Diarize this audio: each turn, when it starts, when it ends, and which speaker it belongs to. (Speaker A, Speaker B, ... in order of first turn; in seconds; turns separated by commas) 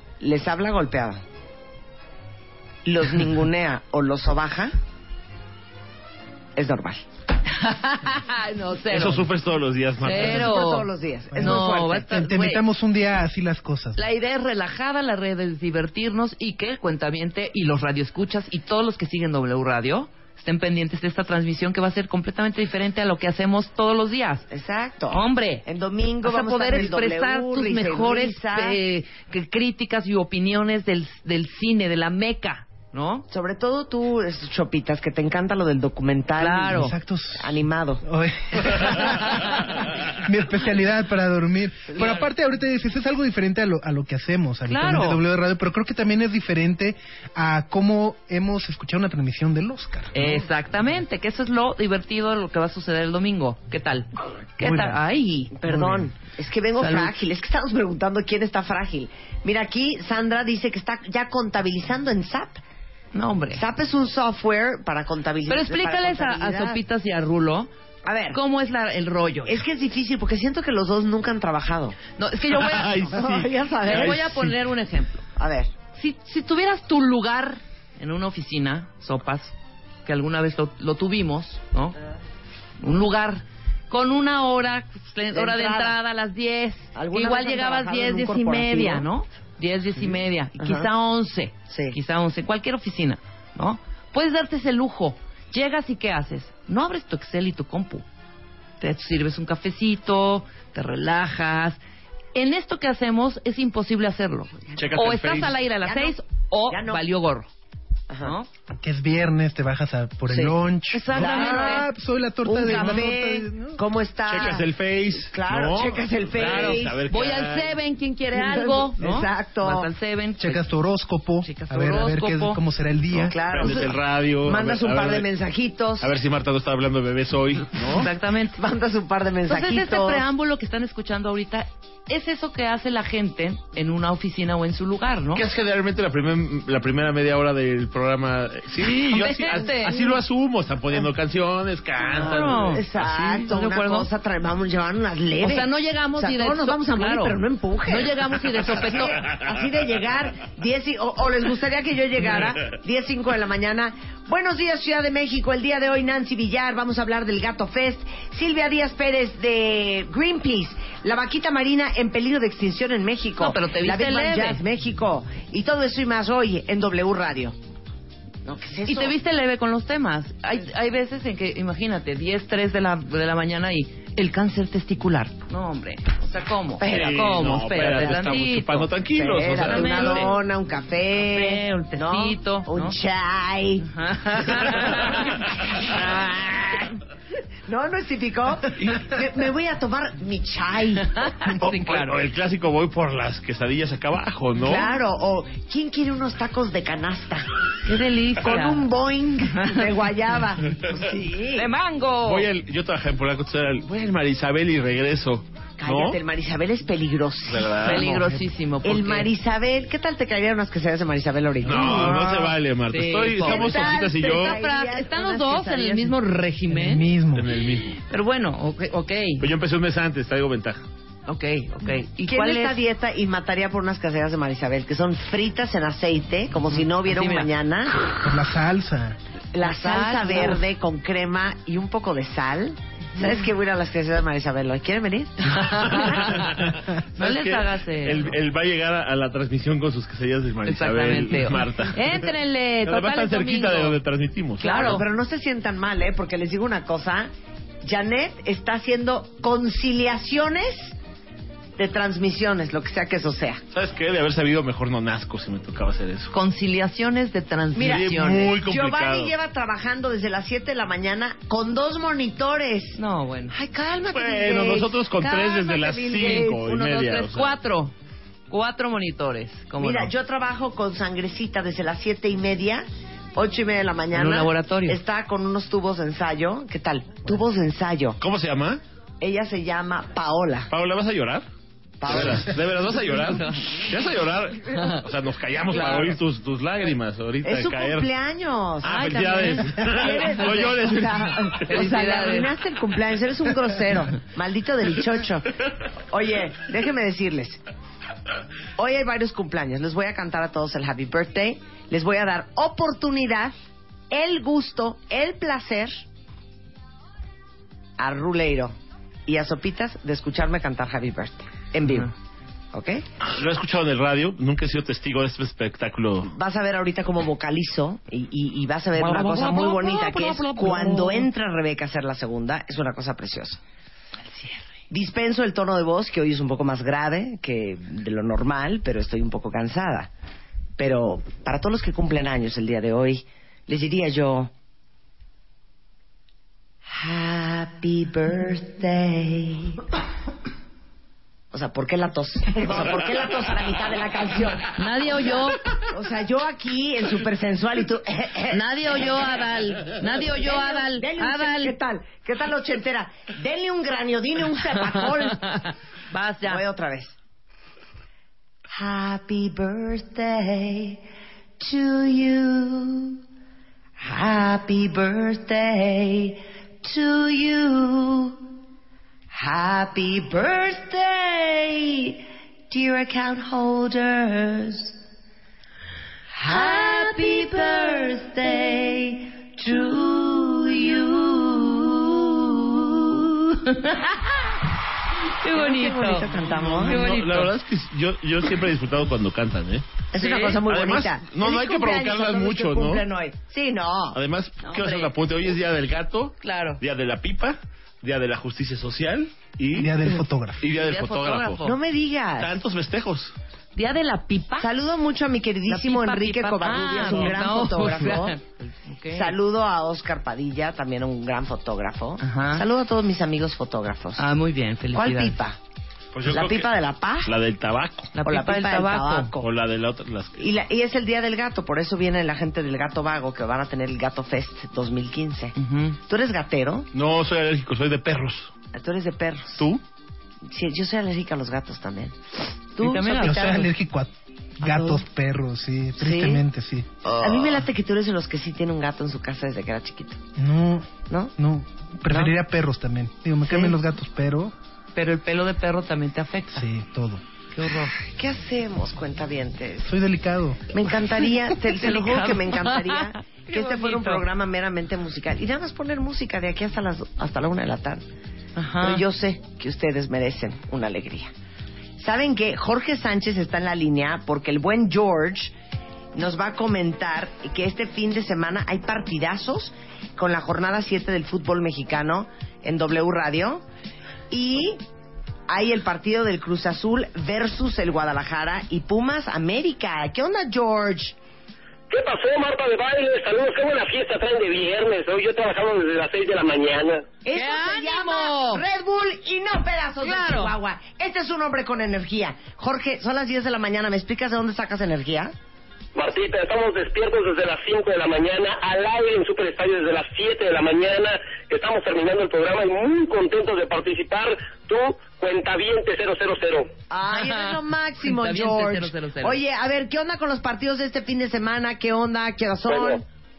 Speaker A: 0.2-1.2, Speaker A: 2.9-4.7, Speaker A: 6.6-7.0, Speaker B: 7.5-9.3, Speaker C: 8.9-10.3, Speaker B: 10.0-12.6, Speaker A: 10.0-12.1, Speaker D: 11.3-14.0, Speaker B: 14.0-24.5, Speaker A: 24.5-28.8, Speaker B: 25.1-25.6, Speaker B: 26.2-33.3, Speaker A: 33.3-38.0, Speaker B: 36.4-36.9, Speaker D: 36.7-50.4, Speaker B: 42.0-42.2, Speaker B: 44.7-45.2, Speaker B: 50.1-56.0, Speaker D: 54.6-55.0, Speaker A: 55.6-62.6, Speaker B: 56.8-57.1, Speaker B: 63.1-63.6, Speaker A: 63.5-66.8, Speaker B: 65.5-67.7, Speaker A: 68.0-68.4, Speaker B: 68.3-69.6, Speaker A: 69.5-72.0, Speaker B: 72.2-75.2, Speaker C: 72.6-73.4, Speaker A: 73.1-74.5, Speaker C: 73.9-74.5, Speaker A: 75.4-75.7, Speaker B: 75.9-82.0, Speaker B: 82.8-98.0, Speaker A: 85.3-86.0, Speaker A: 87.0-89.1, Speaker A: 90.6-90.9, Speaker A: 91.7-92.0, Speaker B: 98.8-101.8, Speaker B: 102.3-107.5, Speaker C: 104.8-105.6, Speaker A: 105.8-106.2, Speaker A: 106.7-107.0, Speaker A: 108.1-108.3, Speaker B: 108.2-108.5, Speaker D: 108.7-113.8, Speaker B: 110.3-111.9, Speaker A: 111.1-111.9, Speaker B: 112.5-113.2, Speaker A: 112.5-117.0, Speaker C: 114.3-117.7, Speaker B: 116.4-120.6, Speaker A: 118.3-119.9, Speaker D: 120.4-123.4, Speaker B: 121.4-122.6, Speaker A: 123.2-126.1, Speaker C: 123.4-125.3, Speaker C: 126.0-128.1, Speaker B: 127.9-128.6, Speaker A: 128.6-130.2, Speaker B: 129.5-135.5, Speaker C: 135.3-143.3, Speaker B: 138.8-140.1, Speaker A: 142.1-167.6, Speaker B: 142.1-144.1, Speaker B: 145.4-149.3, Speaker B: 163.4-164.6, Speaker A: 168.4-169.2, Speaker B: 168.8-180.4, Speaker A: 176.8-177.3, Speaker C: 176.8-180.3, Speaker A: 179.1-183.9, Speaker B: 181.2-183.0, Speaker B: 183.9-185.4, Speaker A: 184.4-187.0, Speaker A: 187.7-191.3, Speaker B: 191.2-192.2, Speaker C: 191.6-194.9, Speaker A: 194.6-197.5, Speaker B: 197.8-198.9, Speaker A: 198.4-201.7, Speaker B: 201.6-202.5, Speaker C: 202.2-206.2, Speaker A: 205.8-208.1, Speaker C: 207.5-208.2, Speaker B: 207.8-209.3, Speaker A: 208.8-212.3, Speaker C: 211.7-214.6, Speaker D: 211.7-212.5, Speaker B: 212.9-217.1, Speaker A: 213.4-216.2, Speaker D: 216.7-217.5, Speaker C: 217.4-217.9, Speaker B: 218.0-219.5, Speaker C: 219.4-220.8, Speaker B: 221.3-222.8, Speaker A: 222.2-228.0, Speaker B: 226.7-227.5, Speaker D: 228.2-229.2, Speaker A: 229.5-236.1, Speaker B: 229.6-230.6, Speaker B: 235.5-238.4, Speaker C: 236.0-242.3, Speaker B: 240.7-244.0, Speaker C: 242.8-245.0, Speaker B: 244.6-245.1, Speaker A: 244.6-247.3, Speaker A: 247.8-251.0, Speaker A: 251.8-253.6, Speaker C: 253.7-256.3, Speaker B: 256.3-258.6, Speaker A: 257.7-263.0, Speaker C: 257.8-259.3, Speaker B: 263.0-263.6, Speaker A: 263.5-267.2, Speaker C: 264.1-267.5, Speaker B: 266.2-267.9, Speaker B: 268.5-270.1, Speaker A: 269.8-278.2, Speaker B: 274.1-275.0, Speaker C: 278.2-278.8, Speaker A: 279.2-280.7, Speaker C: 280.7-281.5, Speaker A: 282.0-282.6, Speaker C: 282.1-288.1, Speaker B: 285.7-286.1, Speaker A: 285.7-286.1, Speaker A: 287.4-295.5, Speaker C: 288.8-291.6, Speaker B: 288.8-290.6, Speaker B: 291.6-292.5, Speaker A: 296.1-297.6, Speaker A: 298.8-303.5, Speaker A: 304.1-306.0, Speaker A: 308.0-308.8, Speaker A: 309.3-312.1, Speaker A: 312.7-313.0, Speaker C: 313.2-316.3, Speaker A: 316.2-323.6, Speaker B: 319.0-321.2, Speaker A: 324.9-330.1, Speaker A: 330.8-334.5, Speaker A: 336.9-339.8, Speaker A: 341.5-344.7, Speaker B: 344.8-345.6, Speaker A: 345.9-349.4, Speaker B: 348.5-351.8, Speaker A: 350.2-355.4, Speaker B: 354.9-356.6, Speaker A: 356.4-357.2, Speaker A: 358.7-361.0, Speaker A: 361.6-363.2, Speaker A: 364.0-368.4, Speaker A: 369.3-375.0, Speaker A: 376.3-383.3, Speaker B: 376.5-377.5, Speaker B: 383.5-384.5, Speaker B: 385.4-387.6, Speaker A: 385.5-387.2, Speaker C: 386.6-389.9, Speaker A: 390.1-394.2, Speaker B: 390.2-390.6, Speaker C: 390.6-393.0, Speaker C: 394.1-400.0, Speaker B: 394.6-395.1, Speaker B: 396.4-396.8, Speaker D: 399.7-400.6, Speaker C: 400.6-401.7, Speaker B: 400.7-401.8, Speaker A: 401.6-402.6, Speaker C: 402.4-403.3, Speaker B: 403.8-404.7, Speaker A: 404.6-408.4, Speaker B: 405.7-409.3, Speaker C: 407.0-407.4, Speaker A: 409.1-414.3, Speaker B: 412.2-412.6, Speaker B: 414.2-415.4, Speaker A: 414.9-415.6, Speaker C: 416.1-416.7, Speaker A: 416.3-417.4, Speaker C: 417.2-418.1, Speaker B: 418.1-419.3, Speaker A: 418.2-419.5, Speaker C: 419.4-420.5, Speaker A: 420.4-425.6, Speaker B: 425.6-426.0, Speaker A: 426.1-426.9, Speaker C: 426.9-428.5, Speaker A: 428.7-429.7, Speaker A: 430.5-432.2, Speaker A: 432.8-433.7, Speaker B: 432.8-433.7, Speaker D: 433.2-436.9, Speaker A: 434.7-435.0, Speaker A: 436.0-436.4, Speaker B: 437.1-437.4, Speaker A: 437.1-440.2, Speaker D: 440.4-444.5, Speaker A: 441.1-441.3, Speaker A: 442.1-442.4, Speaker A: 443.5-443.8, Speaker B: 444.9-446.7, Speaker D: 446.5-447.2, Speaker B: 447.5-447.9, Speaker A: 448.0-449.9, Speaker D: 449.8-450.7, Speaker A: 450.7-458.0, Speaker B: 451.5-454.2, Speaker B: 458.6-459.1, Speaker A: 458.8-461.3, Speaker A: 462.0-465.5, Speaker A: 466.1-473.6, Speaker A: 474.3-474.8, Speaker A: 475.5-481.1, Speaker E: 481.9-487.1, Speaker A: 487.2-495.3, Speaker B: 487.3-488.6, Speaker B: 490.0-490.5, Speaker E: 495.9-506.7, Speaker A: 506.9-513.0, Speaker B: 507.1-509.4, Speaker E: 512.7-513.0